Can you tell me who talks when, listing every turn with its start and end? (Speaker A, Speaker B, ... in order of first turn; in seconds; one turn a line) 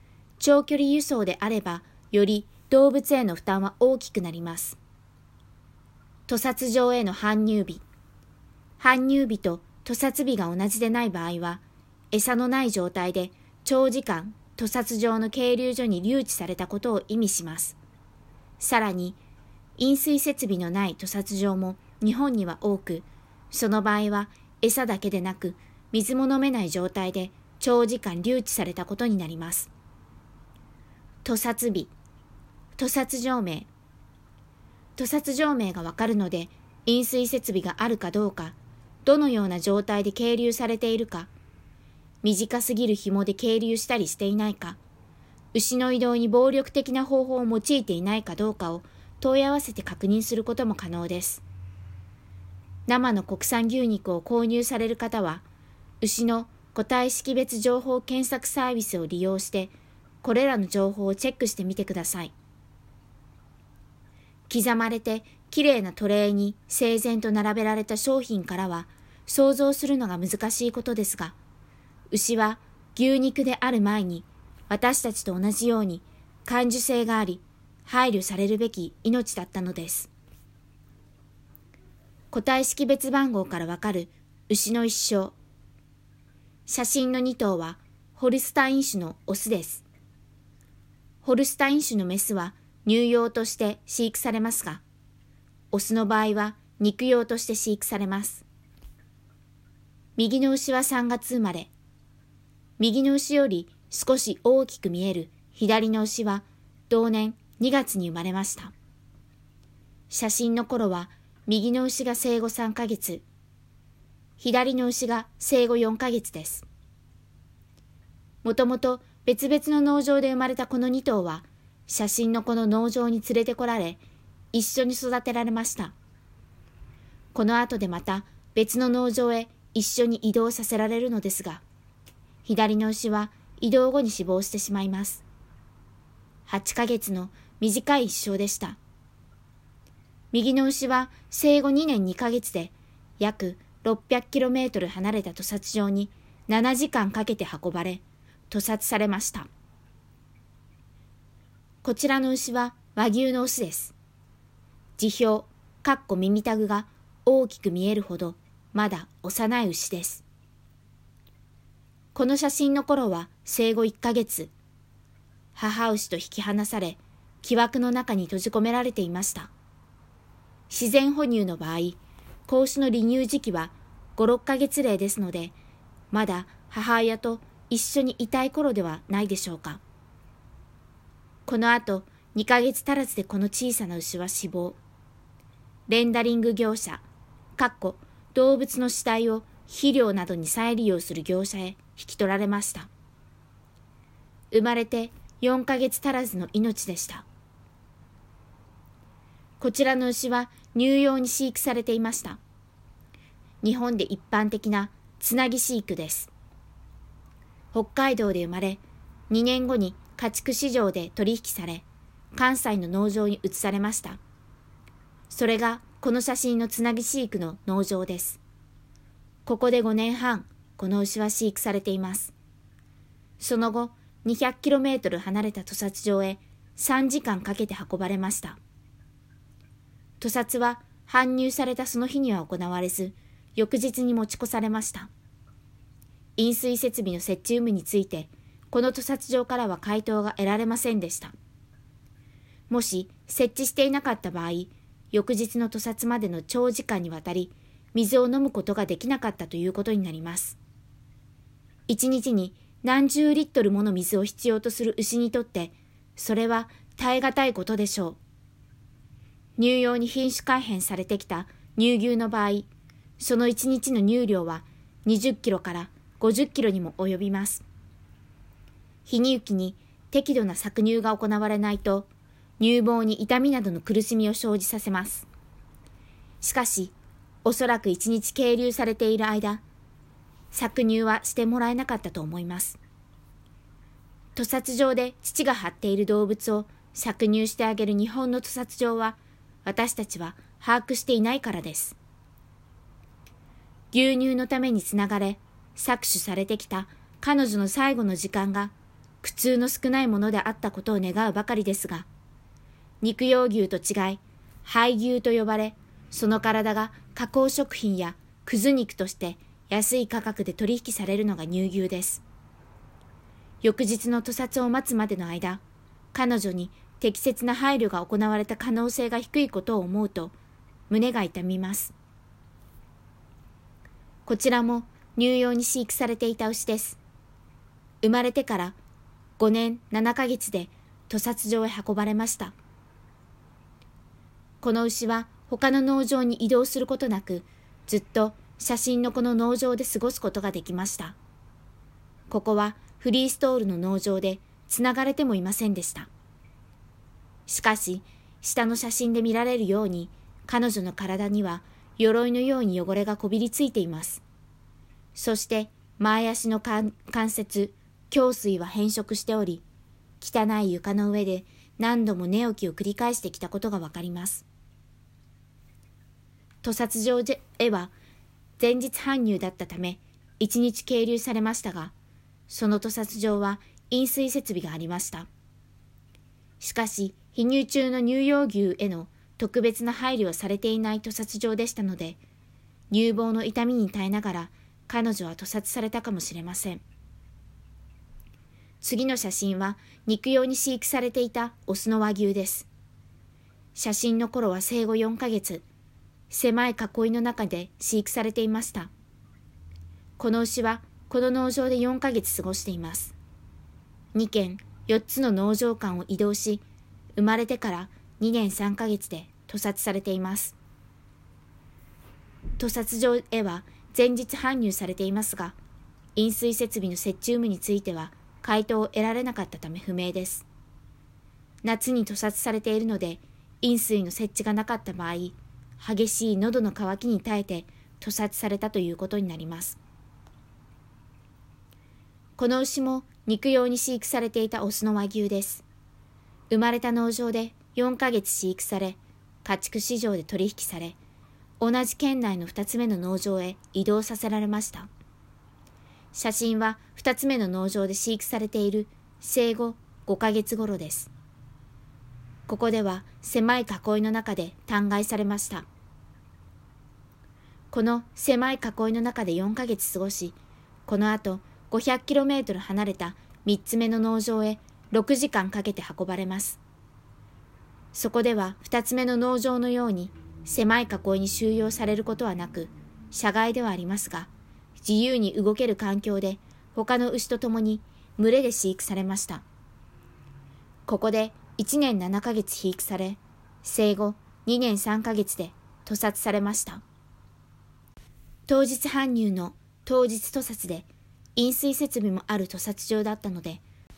Speaker A: 0.4-4.8
Speaker A: 6.3-7.8
Speaker A: 8.8-17.8
Speaker A: 18.6-19.2
Speaker A: 19.8-29.7
Speaker A: 31.2-31.9
Speaker A: 32.8-33.7
Speaker A: 35.0-41.3
Speaker A: 42.2-44.8
Speaker A: 45.5-51.4
Speaker A: 52.9-55.4
Speaker A: 56.0-62.3
Speaker A: 64.5-71.4
Speaker A: 72.1-80.1
Speaker A: 82.3-85.3
Speaker A: 86.7-89.8
Speaker A: 91.2-94.8
Speaker A: 95.7-98.4
Speaker A: 100.2-101.7
Speaker A: 102.8-108.7
Speaker A: 110.1-113.2
Speaker A: 114.4-116.7
Speaker A: 118.4-124.0
Speaker A: 124.5-125.9
Speaker A: 127.3-131.6
Speaker A: 132.4-135.2
Speaker A: 136.5-138.8
Speaker A: 140.3-149.5
Speaker A: 151.8-153.9
Speaker A: 155.0-160.2
Speaker A: 162.2-164.5
Speaker A: 165.6-169.5
Speaker A: 170.7-175.6
Speaker A: 176.1-179.8
Speaker A: 181.5-184.8
Speaker A: 185.9-187.1
Speaker A: 187.6-192.9
Speaker A: 194.5-197.3
Speaker A: 199.6-202.4
Speaker A: 203.6-206.3
Speaker A: 207.7-214.2
Speaker A: 215.3-218.4
Speaker A: 219.5-222.3
Speaker A: 223.4-228.6
Speaker A: 230.2-235.1
Speaker A: 236.4-241.3
Speaker A: 242.7-250.6
Speaker A: 251.9-258.2
Speaker A: 259.6-262.7
Speaker A: 263.2-267.6
Speaker A: 269.1-275.3
Speaker A: 276.4-279.6
Speaker A: 280.5-282.8
Speaker A: 284.4-292.0
Speaker A: 293.9-302.1
Speaker A: 303.0-312.2
Speaker A: 313.6-315.6
Speaker A: 316.1-320.3
Speaker A: 320.9-321.9
Speaker A: 324.3-327.0
Speaker A: 328.0-328.8
Speaker A: 329.4-332.6
Speaker A: 334.6-341.2
Speaker A: 342.3-346.1
Speaker A: 347.5-354.2
Speaker A: 355.1-359.6
Speaker A: 360.2-364.4
Speaker A: 366.6-367.9
Speaker A: 368.6-371.9
Speaker A: 372.5-375.3
Speaker A: 376.6-382.2
Speaker A: 382.9-386.8
Speaker A: 388.8-392.7
Speaker A: 393.8-395.6
Speaker A: 396.3-398.9
Speaker A: 400.2-403.1
Speaker A: 404.1-406.6
Speaker A: 407.1-410.6
Speaker A: 412.6-415.6
Speaker A: 416.2-420.4
Speaker A: 421.6-429.8
Speaker A: 432.4-435.6
Speaker A: 436.5-441.0
Speaker A: 441.6-444.9
Speaker A: 446.1-451.1
Speaker A: 452.5-455.7
Speaker A: 457.7-466.6
Speaker A: 467.9-479.4
Speaker A: 480.9-486.8
Speaker A: 488.5-493.6